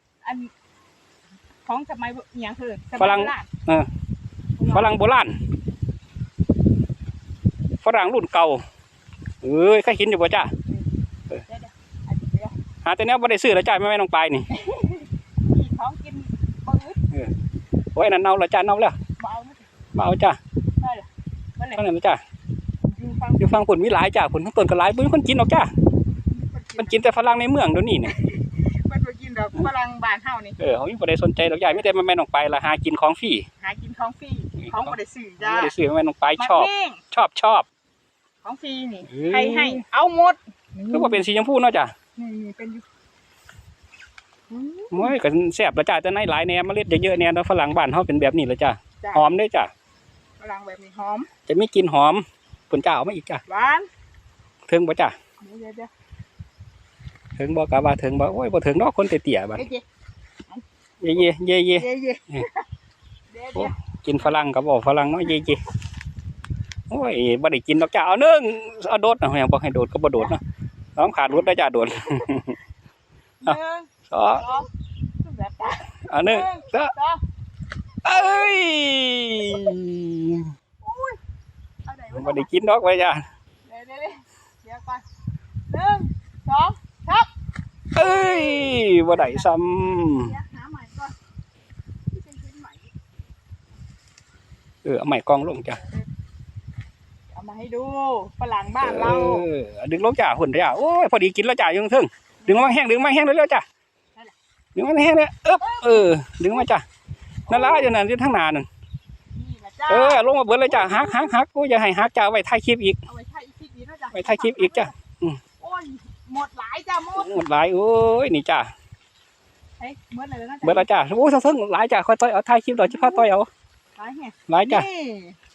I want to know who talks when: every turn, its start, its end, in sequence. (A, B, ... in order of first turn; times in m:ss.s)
0:00.2-0:00.5 A
0:01.6-0:03.5 A
0:03.0-0:03.9 B
0:04.6-0:04.9 A
0:04.7-0:05.4 B
0:07.8-0:08.6 B
0:09.4-0:10.5 B
0:11.4-0:12.6 A
0:12.8-0:14.5 B
0:14.5-0:17.0 A
0:17.9-0:19.0 B
0:19.2-0:19.6 A
0:19.9-0:20.4 B
0:20.8-0:21.8 A
0:21.8-0:22.2 B
0:22.9-0:23.6 A
0:23.4-0:25.7 B
0:26.3-0:27.0 A
0:26.8-0:28.1 B
0:28.0-0:30.6 A
0:30.6-0:33.4 B
0:33.6-0:35.7 A
0:34.6-0:37.6 B
0:36.4-0:37.0 A
0:38.4-0:41.2 A
0:39.1-0:39.8 B
0:40.9-0:41.9 B
0:42.2-0:42.8 A
0:44.5-0:45.1 A
0:44.9-0:49.7 B
0:49.0-0:49.3 A
0:50.4-0:51.3 A
0:51.5-0:53.4 B
0:53.5-0:53.9 A
0:54.7-0:55.1 B
0:55.4-0:55.9 A
0:57.4-0:59.6 B
0:59.5-0:59.8 A
1:01.0-1:01.8 B
1:01.8-1:02.6 A
1:03.3-1:04.3 A
1:03.5-1:05.6 B
1:06.9-1:10.4 B
1:11.0-1:12.6 B
1:13.4-1:14.7 A
1:14.1-1:14.5 B
1:15.2-1:17.2 A
1:16.1-1:16.9 B
1:18.0-1:20.5 B
1:18.1-1:18.5 A
1:20.8-1:21.2 A
1:21.8-1:22.5 A
1:22.1-1:23.2 B
1:23.6-1:25.0 A
1:25.7-1:27.3 A
1:27.9-1:29.5 A
1:27.9-1:30.3 B
1:30.1-1:31.1 A
1:32.1-1:32.9 A
1:34.8-1:35.8 B
1:37.3-1:39.4 A
1:38.8-1:43.6 B
1:42.4-1:42.9 A
1:44.7-1:46.8 B
1:45.6-1:46.1 A
1:47.5-1:47.9 A
1:47.5-1:48.7 B
1:49.3-1:51.3 A
1:49.9-1:53.0 B
1:53.0-1:54.9 A
1:54.1-1:55.4 B
1:55.6-1:57.3 A
1:57.2-1:58.7 B
1:59.8-2:00.9 A
2:00.6-2:03.5 B
2:02.8-2:03.3 A
2:04.0-2:05.4 A
2:04.5-2:04.9 B